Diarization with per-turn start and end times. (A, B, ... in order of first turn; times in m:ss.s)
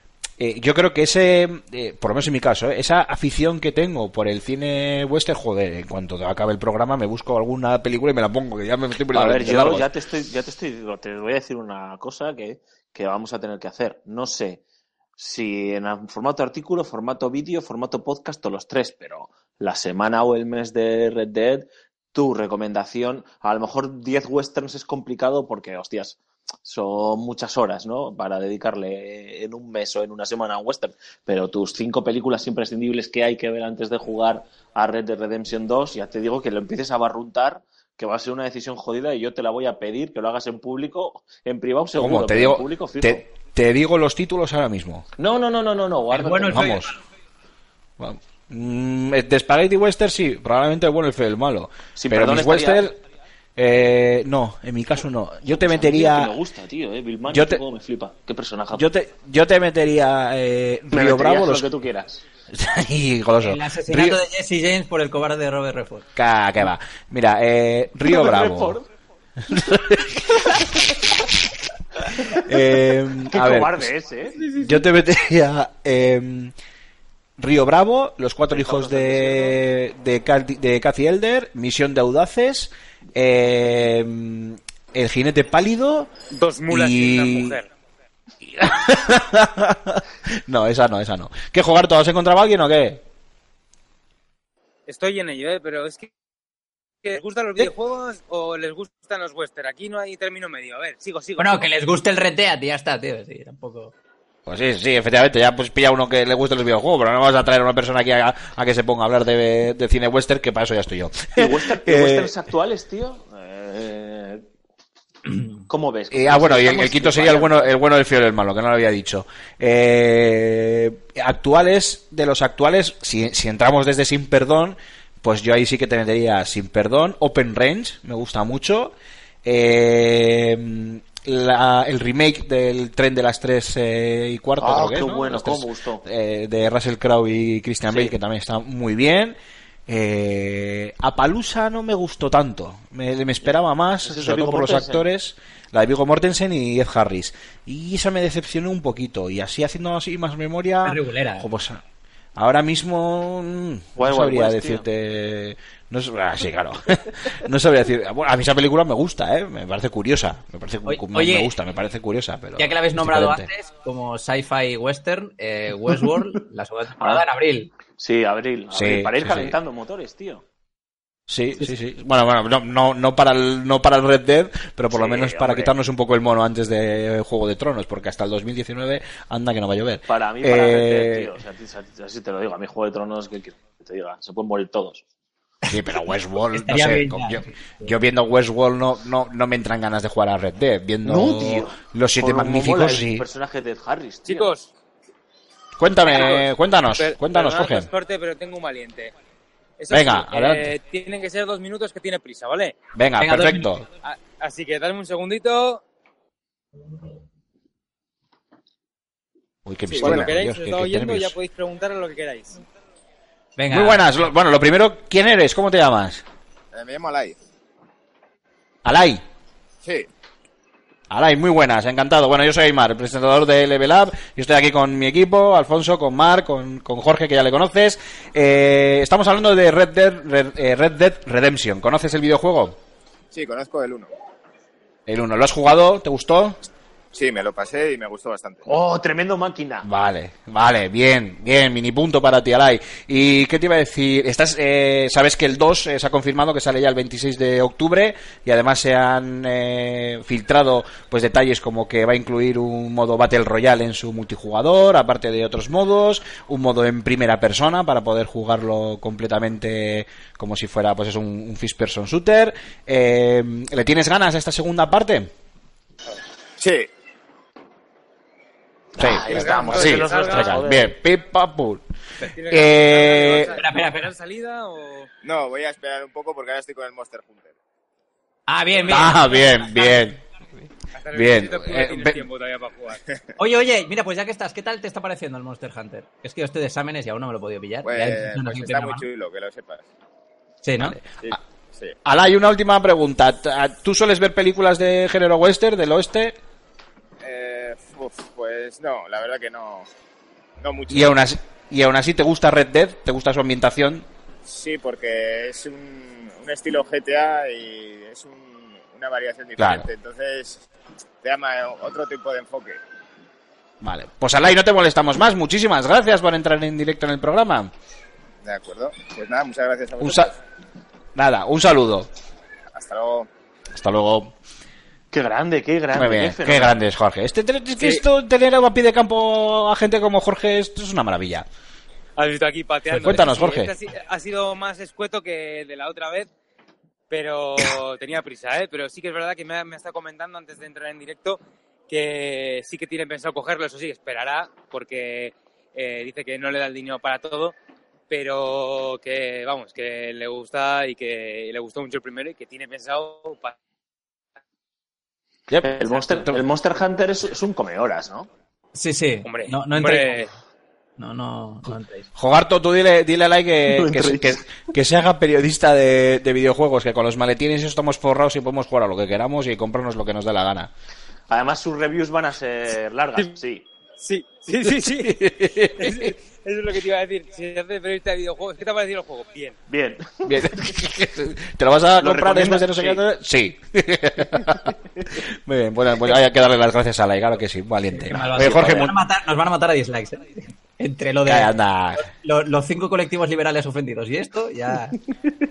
0:00.4-0:09.9 A
0:09.1-0:14.6 B
0:15.2-0:43.2 B
0:42.0-0:45.1 A
0:45.2-0:46.8 B
0:46.1-0:47.0 C
0:46.5-0:46.9 A
0:48.0-0:53.0 A
0:52.0-0:52.9 B
0:53.6-0:56.3 A
0:55.4-0:58.9 B
0:57.3-0:57.6 A
0:58.7-1:01.7 A
1:00.9-1:02.2 B
1:02.5-1:04.2 A
1:03.4-1:06.1 C
1:06.2-1:08.8 A
1:08.0-1:08.9 B
1:09.5-1:11.0 A
1:12.4-1:13.9 A
1:13.3-1:14.5 B
1:14.6-1:16.6 A
1:17.4-1:26.1 A
1:18.5-1:19.6 B
1:26.3-1:27.7 D
1:26.7-1:27.6 A
1:28.4-1:33.0 A
1:34.9-1:36.1 D
1:37.0-1:41.7 D
1:41.4-1:43.9 C
1:44.5-1:52.3 A
1:51.4-1:54.4 B
1:55.7-1:57.7 B
1:56.1-2:31.8 A
2:14.6-2:16.0 B
2:17.9-2:18.1 B
2:24.0-2:25.0 B
2:30.8-2:31.5 C
2:32.4-2:43.5 A
2:34.0-2:34.8 B
2:40.9-2:41.5 C
2:42.6-2:47.7 C
2:47.0-2:47.2 B
2:48.0-2:50.4 B
2:48.7-2:49.6 A
2:51.3-3:01.3 A
2:54.9-2:55.7 B
3:00.1-3:05.0 B
3:05.7-3:13.3 A
3:06.5-3:07.9 C
3:11.0-3:14.5 B
3:14.3-3:14.7 D
3:15.8-3:17.9 A
3:16.0-3:19.1 D
3:19.8-3:22.8 D
3:19.9-3:20.7 A
3:23.0-3:23.8 A
3:23.2-3:23.7 C
3:24.0-3:25.8 D
3:29.6-3:31.4 A
3:29.9-3:32.6 D
3:33.6-3:34.1 C
3:33.7-3:36.2 A
3:36.7-3:37.4 E
3:38.8-3:39.2 A
3:41.1-3:52.8 A
3:53.3-3:54.1 E
3:55.1-3:56.6 A
3:57.1-3:58.6 E
3:58.7-3:59.9 B
3:59.8-4:25.3 A
4:26.6-4:26.9 E
4:29.0-4:30.9 B
4:29.0-4:31.8 A
4:29.2-4:30.6 D
4:32.2-4:35.1 D
4:32.5-4:33.6 A
4:33.5-4:34.1 C
4:35.2-4:37.6 E
4:38.5-4:39.8 C
4:38.8-4:39.2 D
4:38.9-4:40.2 A
4:40.9-4:43.0 D
4:41.1-4:42.2 A
4:43.4-4:49.0 C
4:47.8-4:49.9 E
4:50.6-4:51.0 C
4:50.8-4:51.4 A
4:51.2-4:52.0 E
4:52.0-4:56.4 A
4:57.2-4:59.9 E
5:00.6-5:01.1 E
5:00.9-5:04.1 A
5:04.5-5:10.6 E
5:09.6-5:09.9 A
5:11.2-5:12.8 E
5:13.8-5:17.7 A
5:18.4-5:20.3 E
5:20.0-5:20.3 A
5:21.2-5:22.1 A
5:22.7-5:23.3 E
5:23.7-5:24.4 A
5:25.1-5:26.8 B
5:25.9-5:31.5 A
5:32.2-5:36.3 D
5:33.0-5:33.7 A
5:37.1-5:47.6 D
5:48.1-5:53.6 D
5:55.5-5:58.3 B
5:55.9-5:56.4 A
5:58.8-6:00.2 C
5:59.2-6:00.3 D
6:01.0-6:02.1 C
6:02.2-6:10.7 A
6:03.7-6:04.4 B
6:11.3-6:13.6 B
6:14.0-6:19.6 D
6:14.6-6:16.1 A
6:19.7-6:20.5 B
6:20.2-6:28.9 A
6:22.0-6:23.0 B
6:27.9-6:35.0 C
6:28.4-6:28.9 B
6:31.2-6:32.1 A